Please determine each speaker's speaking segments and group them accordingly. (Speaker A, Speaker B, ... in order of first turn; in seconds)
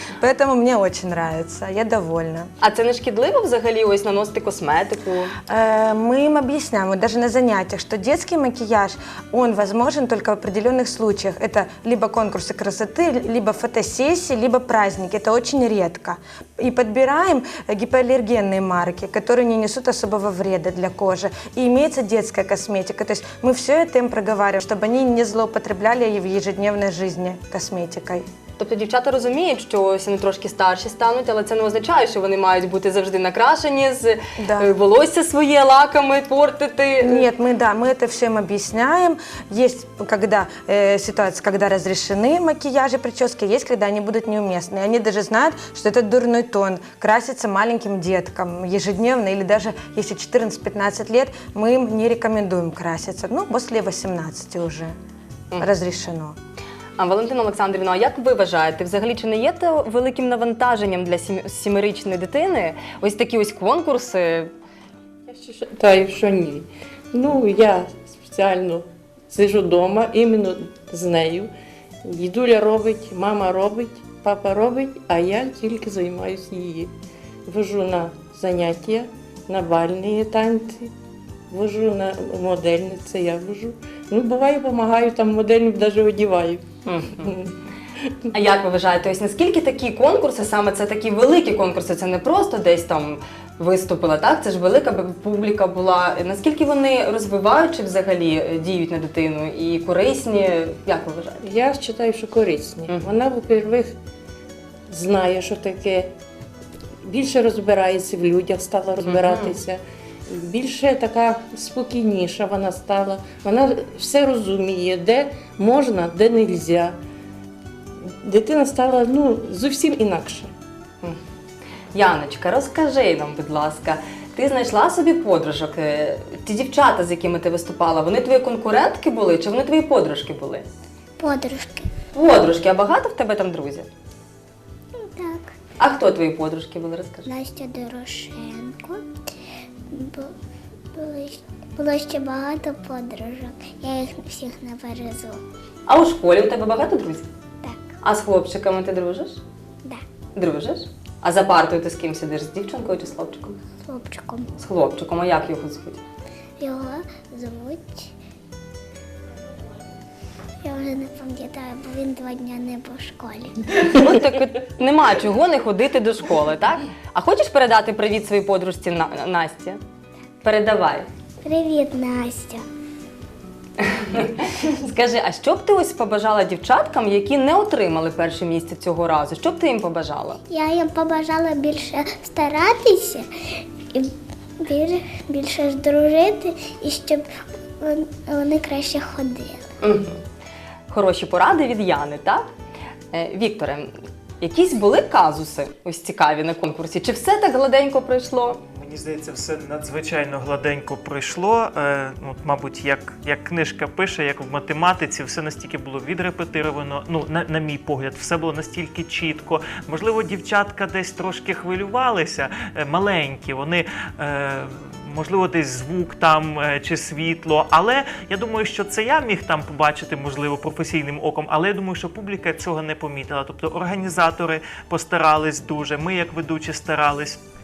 Speaker A: 0.2-2.5, 5.5-28.2, 34.4-34.7, 37.0-54.9, 55.6-56.4
Speaker B: 2.6-5.3, 28.6-37.3, 57.0-64.5, 86.8-87.3, 88.3-101.4, 109.0-109.6, 121.9-130.7, 132.1-133.9, 135.8-137.3, 145.9-147.3, 148.0-149.4, 150.3-153.6, 154.6-156.0, 163.8-169.8, 170.4-171.1, 173.8-180.4, 189.8-190.2, 190.9-192.5, 193.1-198.6
Speaker C: 65.3-71.5, 72.0-76.9, 77.5-80.9, 81.5-86.6, 87.2-87.5, 101.4-104.0, 104.9-106.1, 107.0-117.0, 118.2-120.5
Speaker D: 131.2-131.9, 134.9-135.5, 137.2-139.0, 139.9-140.3, 140.9-145.4, 153.8-154.5, 156.6-158.1, 160.6-163.7, 171.4-172.6, 180.5-187.2, 187.8-189.6
Speaker E: 198.6-227.4